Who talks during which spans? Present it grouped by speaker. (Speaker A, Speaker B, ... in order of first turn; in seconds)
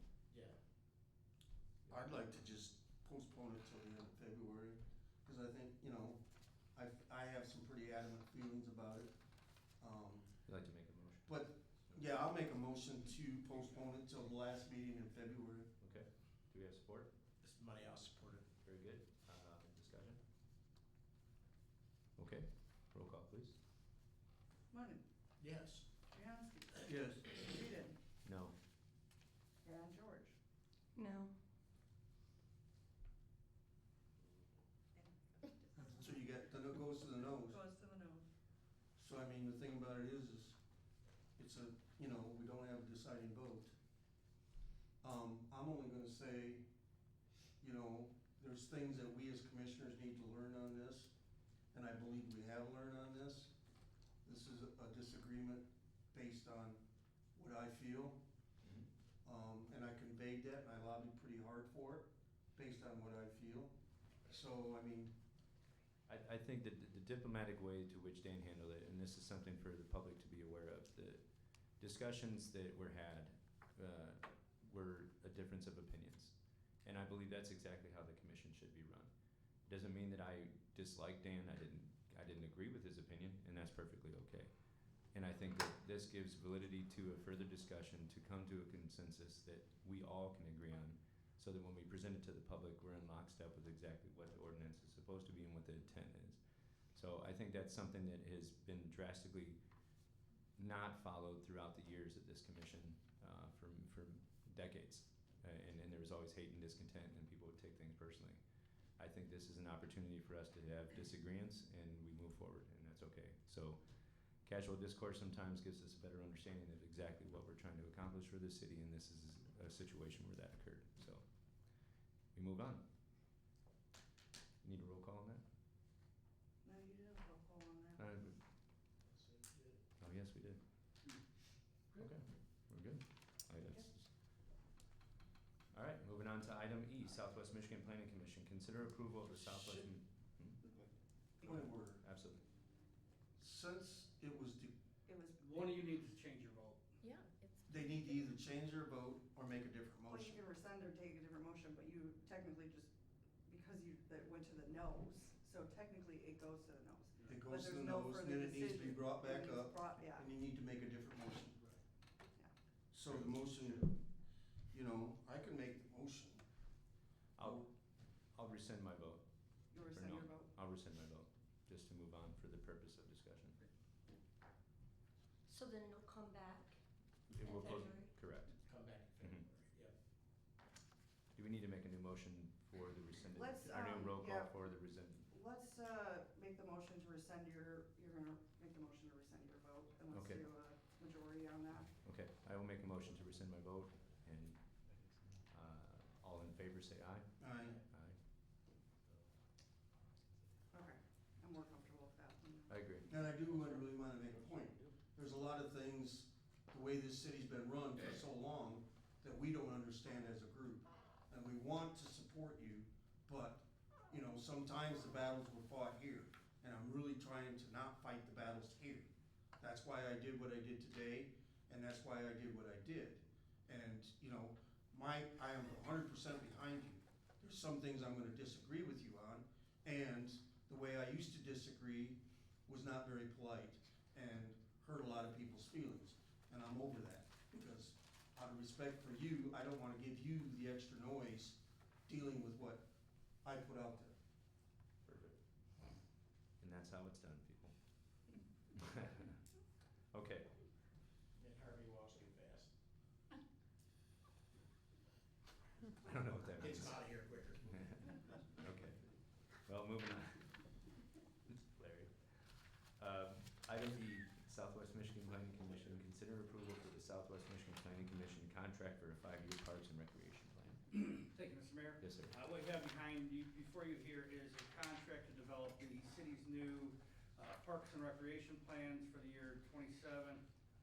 Speaker A: 0.3-0.6, 17.4-18.5, 25.4-25.9, 129.1-129.8, 178.5-179.9, 197.6-197.8, 251.3-252.7, 256.5-258.2
Speaker B: 1.9-6.2, 6.7-9.1, 9.8-10.4, 11.3-15.7, 26.9-27.3, 35.9-37.6, 39.0-40.6, 41.4-43.8, 45.0-46.7, 47.6-51.1, 51.7-53.5, 54.2-56.8, 57.4-58.2, 59.2-63.7, 64.2-65.1, 141.4-142.0, 143.4-144.7, 147.7-150.4, 157.3-161.6, 162.9-164.0, 164.7-166.4, 167.4-167.7, 197.4-197.8, 203.1-242.9, 243.4-244.2
Speaker C: 10.4-12.0, 15.8-17.1, 18.6-20.2, 22.2-23.6, 28.2-28.5, 58.6-58.9, 66.1-71.2, 71.8-76.3, 76.8-79.1, 79.7-84.5, 85.1-96.4, 96.9-99.6, 100.6-108.4, 109.0-113.8, 114.4-121.2, 122.3-122.8, 124.6-125.4, 128.0-128.4, 130.0-130.6, 131.9-134.1, 135.7-140.6, 142.0-142.4, 167.4-167.7, 168.3-173.6, 177.3-178.6, 179.2-179.5, 181.3-185.3, 190.1-190.5, 191.9-194.6, 195.5-198.2, 202.7-203.1, 245.1-245.4, 246.6-247.7, 248.8-249.4, 250.1-250.5, 255.9-257.0, 257.7-259.0, 259.6-260.7, 261.5-270.8, 272.0-272.4
Speaker D: 24.7-25.0, 26.1-28.0, 29.6-30.4, 35.0-36.0, 37.3-38.3, 126.6-128.0, 145.1-145.8, 150.1-152.9, 153.5-160.3, 169.7-170.5, 183.3-184.7, 185.3-191.9, 200.7-202.8
Speaker E: 145.4-146.9, 270.9-280.4
Speaker F: 147.0-147.8, 175.5-176.8, 177.4-178.0